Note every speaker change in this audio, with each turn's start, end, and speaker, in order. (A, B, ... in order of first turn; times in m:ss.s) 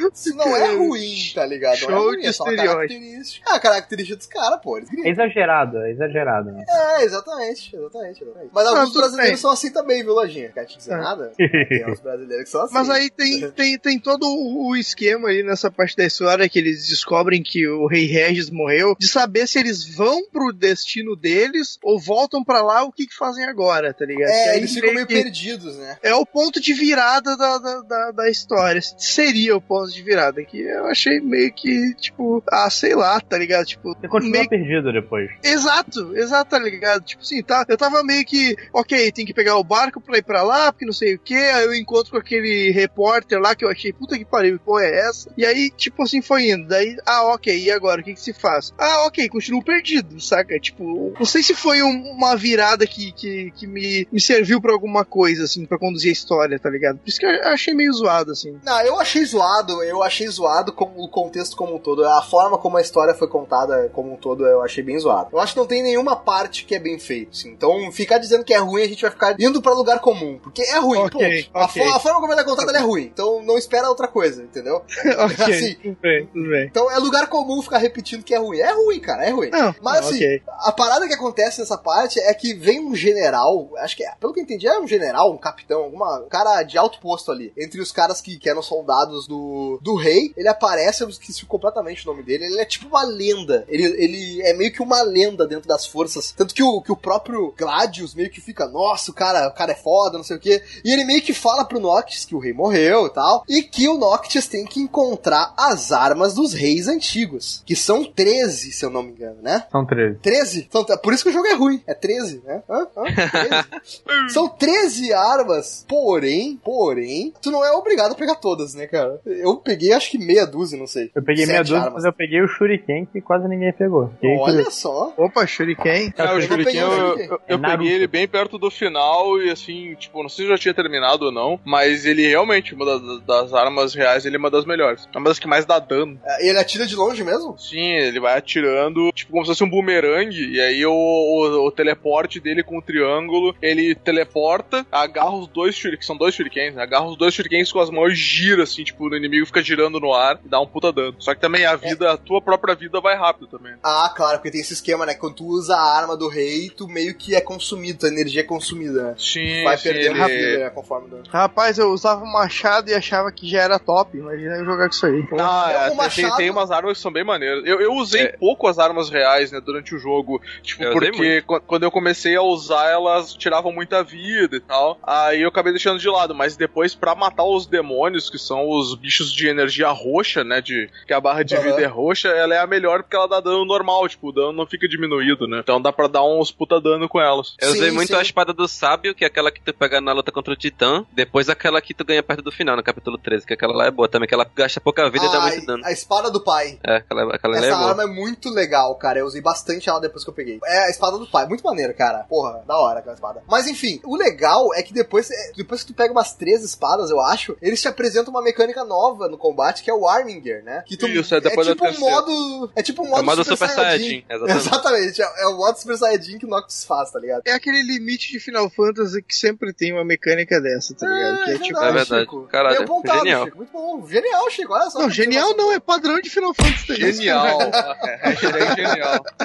0:00.2-0:05.2 A
0:00.4-0:03.0 B
0:05.0-0:06.7 C
0:06.6-0:13.5 A
0:08.7-0:09.4 B
0:11.4-0:11.9 C
0:12.7-0:25.3 B
0:24.2-0:26.0 A
0:26.0-0:34.5 B
0:34.0-0:35.4 C
0:35.4-0:58.6 B
0:58.6-1:49.7 A
1:11.0-1:12.0 B
1:15.0-1:16.7 B
1:19.5-1:20.4 B
1:49.7-1:50.2 C
1:50.2-2:02.1 A
1:53.1-1:53.6 D
1:54.1-1:54.4 E
2:01.2-2:04.7 C
2:04.2-2:05.2 A
2:05.2-2:06.2 B
2:06.2-2:16.2 E
2:06.2-2:08.1 C
2:06.4-2:07.4 A
2:16.2-2:17.6 A
2:17.6-2:33.8 E
2:33.8-2:41.3 A
2:39.2-2:40.6 E
2:41.3-2:45.5 B
2:45.3-3:07.6 E
2:45.7-2:46.6 A
2:50.8-2:51.4 D
3:01.5-3:01.9 A
3:07.6-3:08.3 A
3:07.6-3:15.9 D
3:15.2-3:16.8 A
3:16.8-3:18.0 D
3:17.5-3:37.4 A
3:31.0-3:32.2 E
3:33.1-3:34.8 D
3:37.5-3:42.1 B
3:41.0-3:45.8 A
3:41.8-3:43.5 D
3:45.0-3:47.8 B
3:46.9-3:49.3 E
3:47.7-3:49.1 A
3:48.4-3:48.7 D